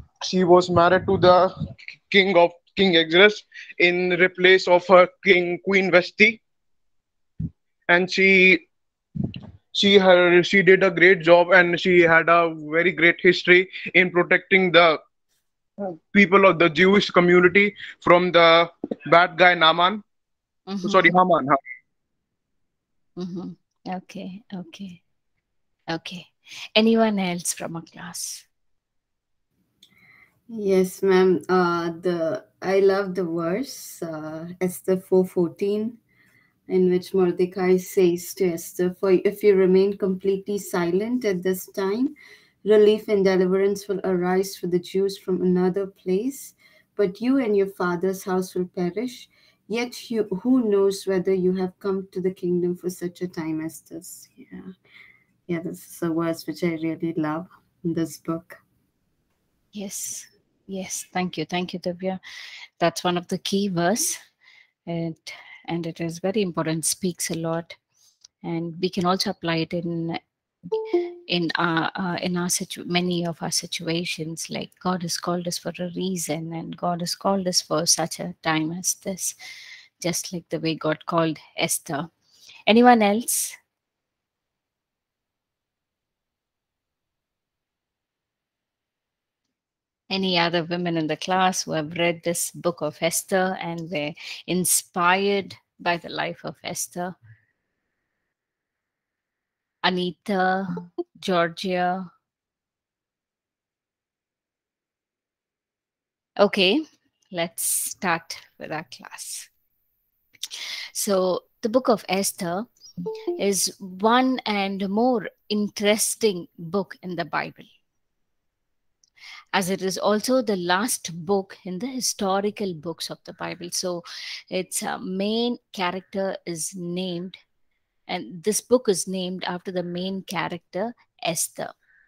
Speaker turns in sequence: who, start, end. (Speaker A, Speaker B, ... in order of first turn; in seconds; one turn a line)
Speaker A: 0.2-6.4
Speaker A: 7.9-8.6
Speaker A: 9.2-15.0
Speaker A: 15.8-20.0
Speaker B: 20.7-21.1
Speaker A: 20.8-21.6
Speaker B: 23.2-25.0
Speaker B: 25.9-28.4
Speaker C: 30.5-36.0
Speaker C: 36.7-54.7
Speaker C: 55.5-58.6
Speaker B: 59.7-62.2
Speaker B: 62.8-64.2
Speaker B: 64.9-67.7
Speaker B: 68.4-79.4
Speaker B: 80.0-82.1
Speaker B: 82.7-83.6
Speaker B: 90.1-97.1
Speaker B: 99.8-102.1
Speaker B: 106.4-109.5
Speaker B: 110.5-112.7
Speaker B: 113.3-117.7
Speaker B: 119.5-127.4
Speaker B: 128.1-131.7